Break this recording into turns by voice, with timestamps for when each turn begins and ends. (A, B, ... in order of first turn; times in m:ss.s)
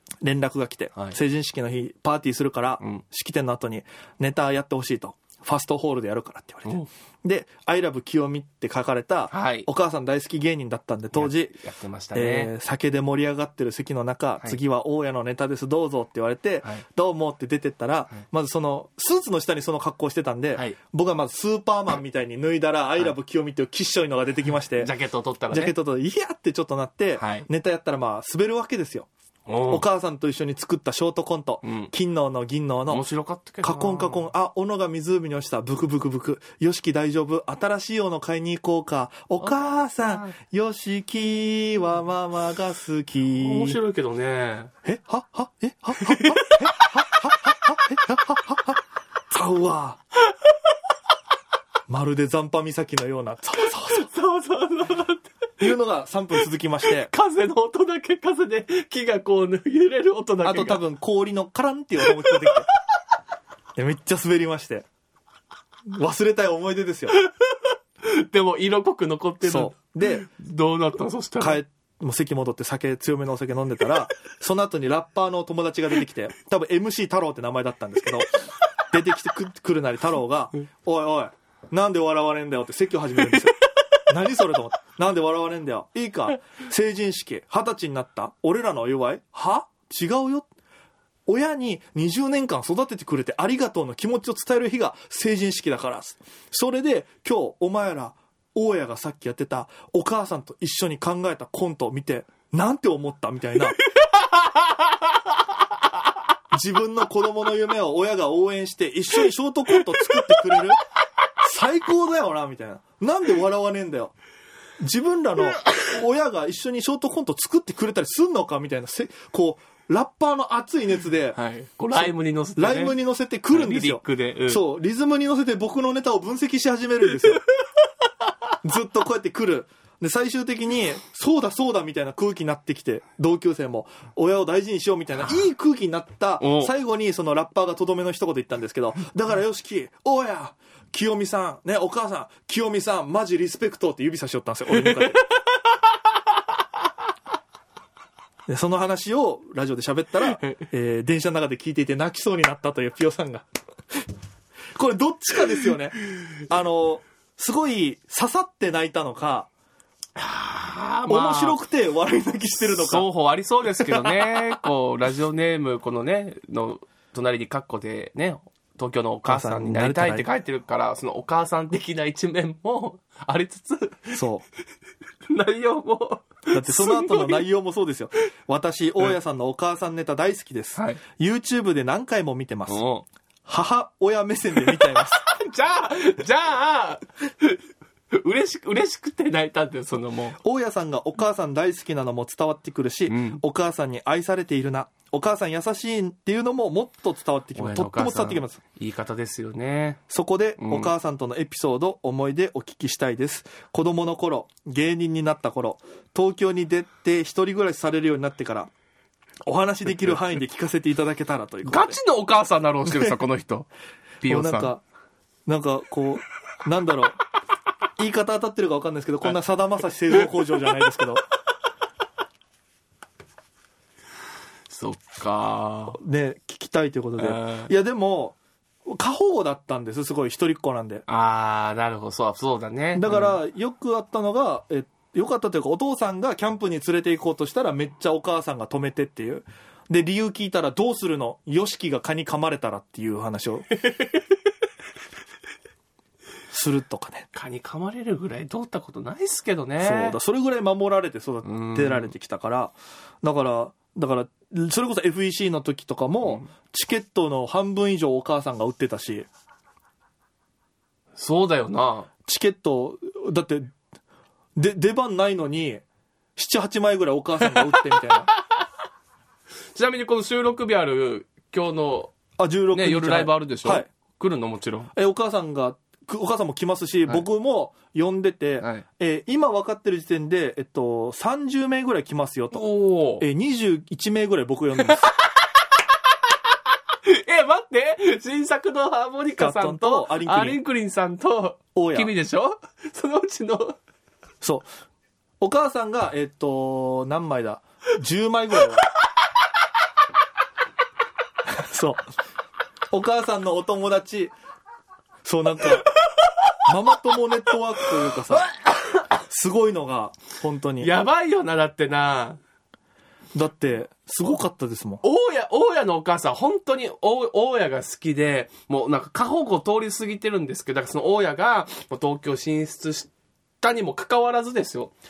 0:00.2-0:11.6 A
0:09.3-0:09.7 B
0:11.1-0:12.5 B
0:12.1-0:24.9 A
0:24.8-0:25.7 B
0:25.5-0:29.1 A
0:27.2-0:27.5 B
0:29.5-0:29.8 B
0:29.7-0:33.0 A
0:31.6-0:31.9 B
0:32.9-0:34.2 B
0:33.6-0:43.8 A
0:39.4-0:40.3 B
0:43.3-0:44.7 B
0:44.8-0:48.8 A
0:46.0-0:46.9 B
0:49.3-0:50.0 A
0:51.9-0:54.1 A
0:53.8-0:55.3 B
0:55.6-0:57.1 A
0:56.8-1:00.8 B
1:00.4-1:02.7 A
1:02.0-1:02.5 B
1:03.8-1:04.9 A
1:05.9-1:07.2 A
1:07.1-1:11.6 B
1:09.4-1:10.3 A
1:11.4-1:30.4 A
1:31.3-1:43.8 A
1:44.0-1:44.9 B
1:46.5-1:50.8 A
1:50.1-1:50.4 B
1:51.4-1:54.1 A
1:54.8-2:01.4 A
2:01.3-2:02.9 B
2:01.9-2:07.4 A
2:03.5-2:04.6 B
2:08.6-2:25.2 A
2:16.4-2:16.7 B
2:24.7-2:25.8 B
2:28.5-2:33.5 A
2:30.3-2:30.6 B
2:34.7-2:39.5 A
2:40.2-2:41.6 B
2:41.1-2:43.0 A
2:42.7-2:54.2 B
2:43.8-2:44.4 A
2:49.2-2:50.3 A
2:54.1-2:54.4 A
2:55.3-2:57.4 B
2:56.5-3:02.8 A
3:00.8-3:01.0 B
3:02.7-3:03.0 B
3:03.4-3:05.2 A
3:04.6-3:07.6 B
3:08.1-3:10.4 B
3:10.4-3:18.6 A
3:13.1-3:13.4 B
3:17.5-3:20.0 B
3:20.1-3:28.7 A
3:20.6-3:20.9 B
3:29.5-3:32.0 A
3:31.6-3:33.7 B
3:34.2-3:34.7 B
3:34.3-3:34.8 A
3:35.5-3:37.2 A
3:38.0-3:41.2 A
3:44.7-3:46.0 B
3:46.0-3:51.0 A
3:47.2-3:47.7 B
3:51.1-3:53.4 B
3:52.9-4:03.7 A
4:03.8-4:04.2 B
4:06.5-4:07.3 A
4:07.3-4:10.2 B
4:09.8-4:19.3 A
4:11.4-4:12.1 B
4:21.1-4:22.1 B
4:22.2-4:23.7 A
4:24.6-4:25.8 A
4:26.4-4:28.3 A
4:27.6-4:28.1 B
4:29.7-4:32.1 B
4:32.4-4:33.9 A
4:32.7-4:34.9 B
4:34.9-4:42.6 A
4:42.5-4:43.2 B
4:43.2-4:45.1 A
4:44.8-4:45.2 B
4:47.0-4:53.8 B
4:49.4-4:50.6 A
4:51.7-4:52.1 A
4:54.4-4:54.7 A
4:55.4-4:58.8 A
5:01.6-5:02.0 A
5:02.9-5:04.3 A
5:05.2-5:05.9 A
5:06.6-5:08.5 A
5:09.2-5:10.9 A
5:10.8-5:12.4 B
5:13.3-5:15.0 A
5:15.0-5:23.1 B
5:23.6-5:24.9 B